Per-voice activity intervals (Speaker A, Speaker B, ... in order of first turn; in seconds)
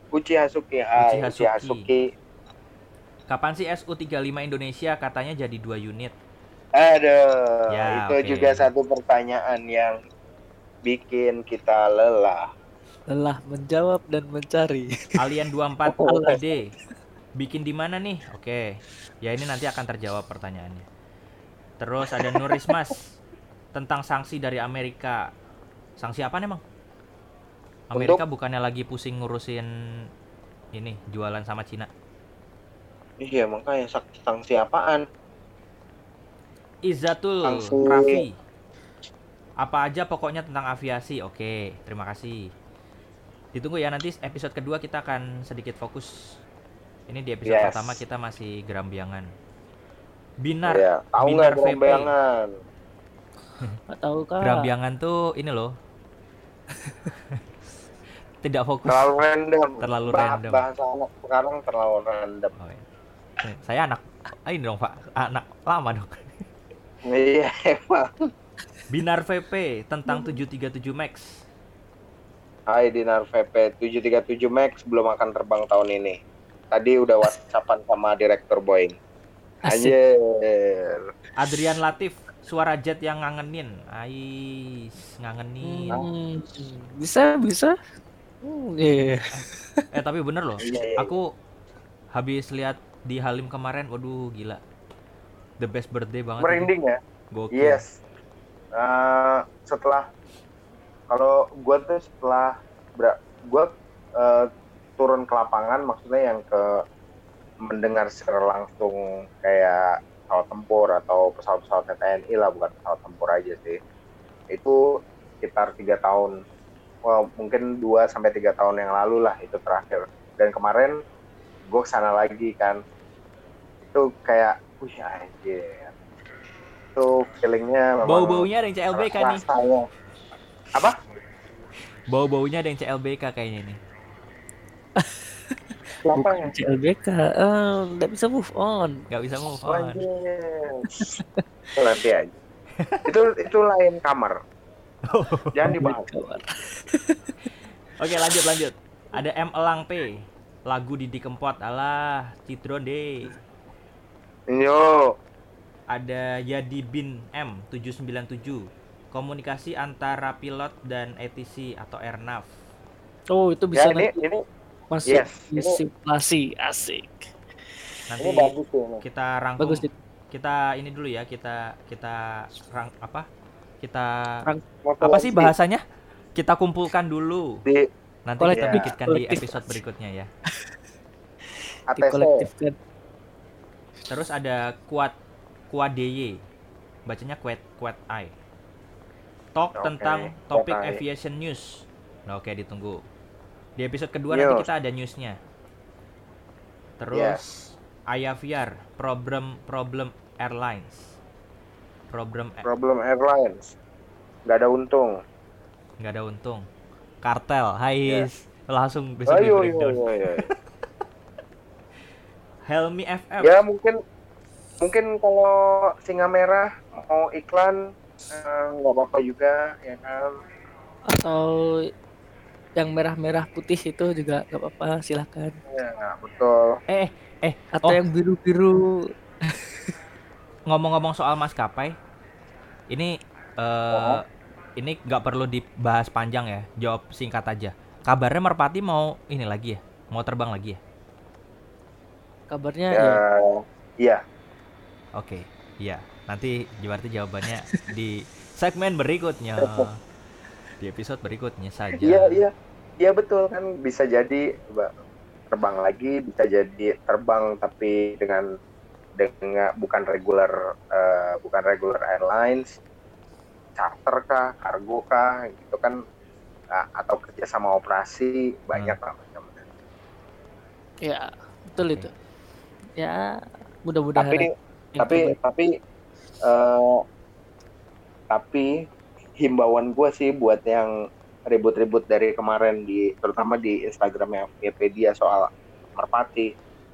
Speaker A: 0.1-2.1, 6.8-10.0, 10.9-12.5, 27.9-28.2, 33.2-35.0, 37.4-38.2, 47.5-48.0, 50.7-52.5, 58.9-62.5, 67.1-68.3, 72.7-76.2, 76.7-79.0, 79.7-81.0, 90.6-91.1, 96.4-97.0, 97.5-98.0, 98.8-100.0, 101.1-106.8, 107.7-113.8, 114.5-114.8, 115.4-116.3, 117.1-121.0, 121.7-122.8, 123.8-125.9, 127.0-129.8, 136.1-136.5, 139.7-141.2, 141.8-142.3, 143.1-144.4, 145.6-146.1, 154.5-155.1, 163.8-164.4, 165.1-165.8, 168.2-169.0, 174.8-175.5, 178.5-178.8, 181.9-182.4, 189.8-191.0, 194.3-194.7, 197.1-197.7, 202.6-203.8, 204.5-205.2, 209.3-210.5, 213.4-213.9, 214.8-217.8, 218.3-220.3, 225.7-226.7, 233.9-234.2, 242.9-244.2, 249.6-249.9, 252.0-254.9, 255.5-258.4, 259.2-262.7, 263.8-266.0, 266.7-269.6, 274.2-275.7, 276.4-277.0, 278.3-278.7, 279.4-280.9, 281.5-286.5
Speaker B: 1.0-1.9, 3.3-6.1, 7.7-8.7, 15.2-16.7, 17.4-18.7, 19.2-20.8, 21.8-23.2, 23.8-25.3, 26.0-26.6, 27.9-29.7, 30.7-31.9, 36.9-38.4, 39.6-42.5, 43.5-46.1, 47.1-49.3, 50.4-52.1, 54.4-55.7, 58.4-59.2, 59.8-60.6, 62.6-62.9, 63.4-66.1, 68.9-71.3, 81.4-86.0, 89.3-91.3, 92.1-94.6, 95.6-96.7, 97.3-97.8, 128.1-129.4, 132.1-133.8, 139.1-140.0, 145.1-145.7, 148.0-153.3, 155.9-162.5, 168.1-173.3, 173.8-174.1, 175.0-175.8, 176.4-177.6, 178.3-180.3, 184.1-185.2, 185.7-186.4, 187.1-188.3, 189.6-193.0, 193.8-195.4, 197.0-197.4, 198.1-201.2, 202.1-202.7, 206.0-206.6, 207.2-210.5, 212.7-213.6, 226.9-228.0, 230.7-231.9, 232.9-234.2, 234.8-240.8, 245.2-250.0, 250.8-252.4, 271.8-272.1
Speaker C: 13.1-15.3, 16.0-16.6, 53.9-54.7, 70.1-70.3, 79.7-80.0, 85.6-87.8, 88.4-89.8, 135.0-135.6, 136.1-139.0, 140.9-141.4, 145.7-147.5, 163.3-164.1, 164.9-167.3, 169.6-169.9, 178.4-179.8, 181.9-182.8, 221.1-221.8, 222.8-225.5, 227.8-228.9, 229.4-229.9, 242.5-243.2, 271.0-272.1, 273.0-273.3, 273.9-275.4